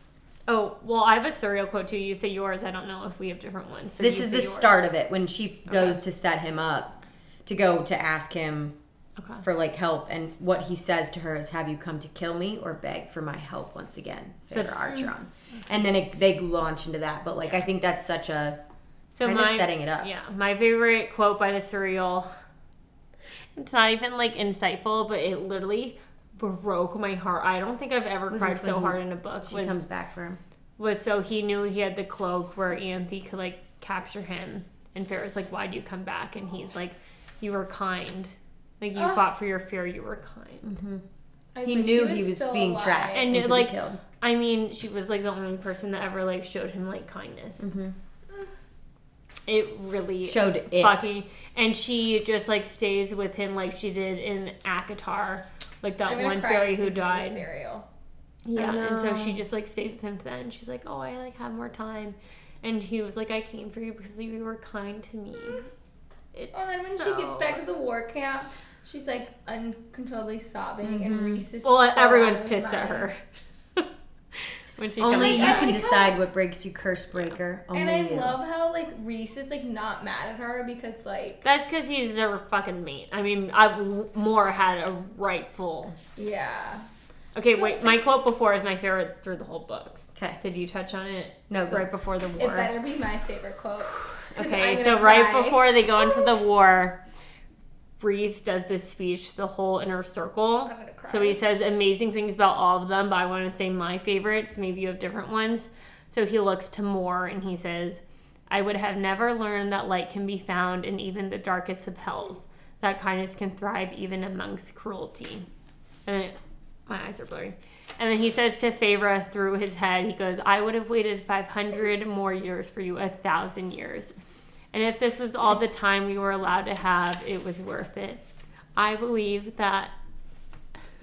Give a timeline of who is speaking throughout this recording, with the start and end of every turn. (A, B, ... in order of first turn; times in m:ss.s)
0:00.5-0:04.8 A
0:04.0-0:08.7 B
0:05.7-0:06.0 A
0:09.2-0:09.4 A
0:09.4-0:18.6 B
0:14.5-0:15.0 A
0:19.1-0:22.3 A
0:19.2-0:20.1 B
0:23.5-0:29.8 A
0:28.3-0:30.4 B
0:30.8-0:40.7 A
0:38.9-0:39.2 C
0:40.6-0:41.0 B
0:41.5-0:43.3 C
0:41.6-0:44.0 B
0:43.1-0:47.6 A
0:47.6-0:48.0 B
0:49.4-0:57.4 A
0:50.2-0:51.1 B
0:56.0-0:57.8 C
0:58.4-1:05.7 A
0:58.5-0:59.4 B
1:06.3-1:07.6 A
1:06.5-1:13.1 C
1:10.8-1:11.4 B
1:11.6-1:13.2 A
1:13.8-1:15.8 A
1:15.0-1:18.4 B
1:15.1-1:16.2 C
1:17.7-1:21.4 C
1:21.4-1:26.0 A
1:26.2-1:26.8 C
1:27.3-1:32.7 A
1:27.6-1:27.9 C
1:31.5-1:31.8 B
1:32.4-1:36.2 C
1:34.0-1:37.0 A
1:38.0-1:55.5 A
1:40.6-1:41.4 C
1:56.0-1:56.3 A
1:56.9-2:04.1 A
2:04.7-2:08.2 A
2:08.8-2:09.9 A